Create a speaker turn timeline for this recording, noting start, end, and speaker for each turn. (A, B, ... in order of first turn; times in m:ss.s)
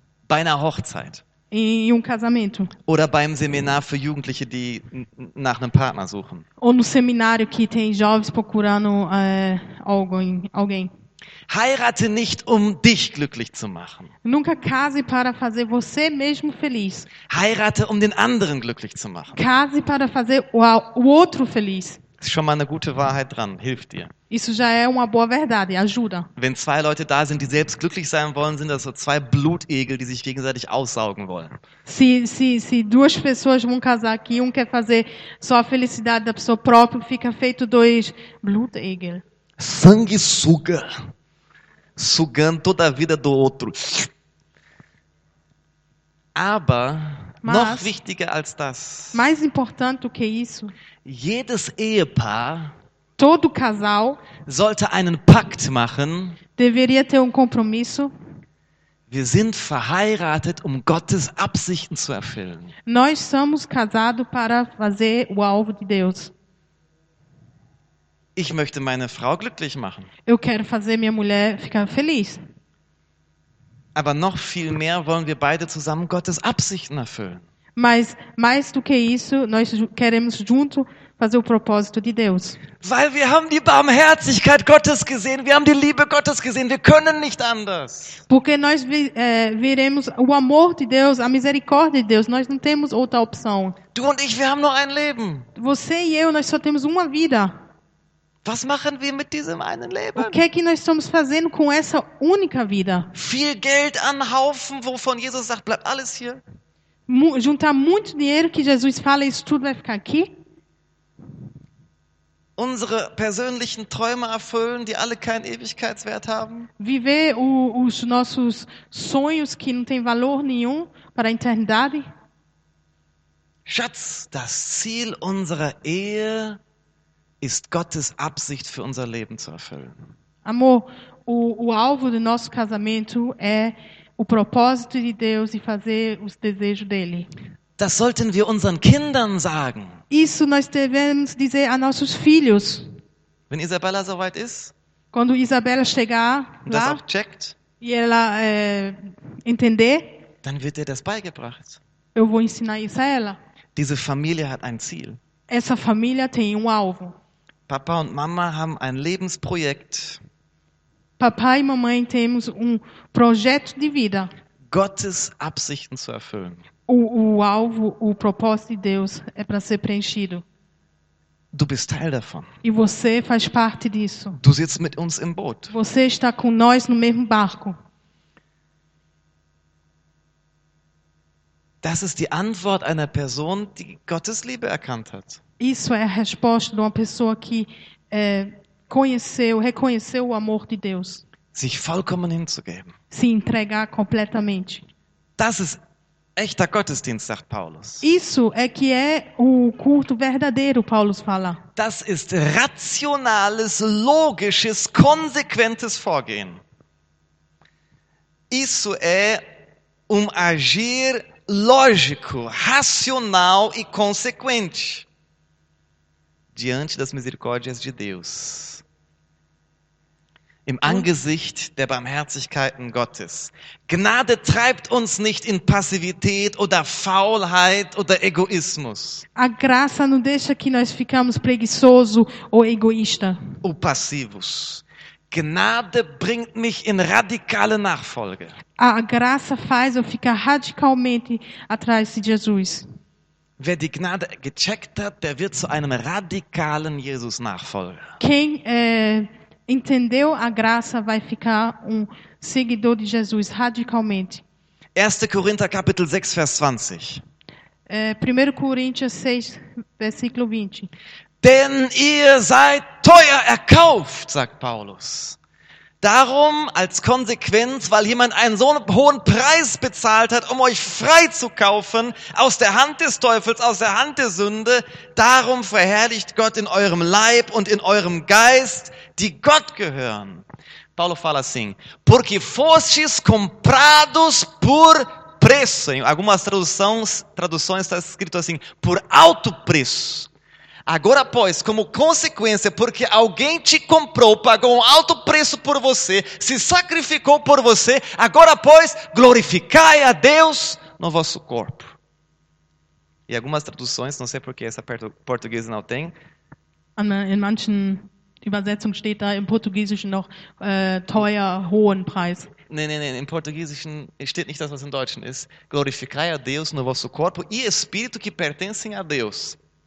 0:00.3-0:01.2 A
0:01.5-0:02.7 B
0:02.9-0:06.4 A
0:06.6-0:10.9 B
0:11.5-0:14.1 A
0:14.2-0:17.1 B
0:17.3-0:19.4 A
0:19.3-0:22.0 B
0:22.2-0:24.1 A
0:24.3-0:26.3 B
0:26.4-0:31.6 A
0:31.9-0:39.2 B
0:39.6-0:41.0 A
0:42.0-0:44.1 A
0:46.4-0:49.2 A
0:47.4-0:47.9 B
0:49.1-0:50.7 B
0:51.0-0:52.7 A
0:53.2-0:54.2 B
0:54.4-0:56.4 A
0:56.6-0:58.1 B
0:59.1-1:02.7 A
1:02.9-1:06.3 B
1:08.4-1:10.1 A
1:10.3-1:12.4 B
1:14.0-1:17.4 A
1:17.8-1:22.6 B
1:22.8-1:28.2 A
1:28.3-1:33.8 B
1:33.9-1:35.5 A
1:35.6-1:37.6 B
1:38.4-1:40.4 A
1:40.2-1:43.1 B
1:43.1-1:46.4 A
1:47.1-1:50.4 B
1:52.6-1:56.7 A
1:56.8-2:02.1 B
2:03.7-2:06.6 A
2:07.4-2:10.0 A
2:10.4-2:17.3 B
2:17.8-2:20.0 A
2:20.1-2:22.9 B
2:23.5-2:24.7 A
2:25.1-2:27.0 B
2:26.7-2:27.6 A
2:27.8-2:30.2 B
2:30.4-2:31.8 A
2:32.2-2:33.4 B
2:33.8-2:35.2 A
2:35.5-2:37.2 B
2:37.7-2:40.2 A
2:41.2-2:44.3 B
2:44.7-2:46.6 A
2:46.9-2:50.4 B
2:51.5-2:52.5 A
2:52.6-2:54.4 B
2:54.4-2:55.7 A
2:55.7-2:57.8 B
3:01.8-3:05.4 A
3:05.6-3:11.2 B
3:11.5-3:12.9 A
3:13.1-3:14.8 B
3:15.4-3:15.8 A
3:16.4-3:18.0 A
3:18.0-3:21.6 B
3:21.8-3:26.6 A
3:28.5-3:29.4 A
3:30.1-3:35.1 A
3:36.5-3:38.8 A
3:40.7-3:49.2 A
3:49.4-3:53.4 B
3:53.6-3:58.6 A
3:58.8-4:02.9 B
4:03.6-4:08.1 A
4:08.2-4:14.4 B
4:15.0-4:17.2 A
4:17.9-4:20.9 B
4:21.4-4:25.4 A
4:26.0-4:40.4 A
4:41.0-4:50.3 A
4:50.9-5:02.0 A
5:03.3-5:06.1 A
5:07.0-5:12.5 B
5:12.7-5:19.6 A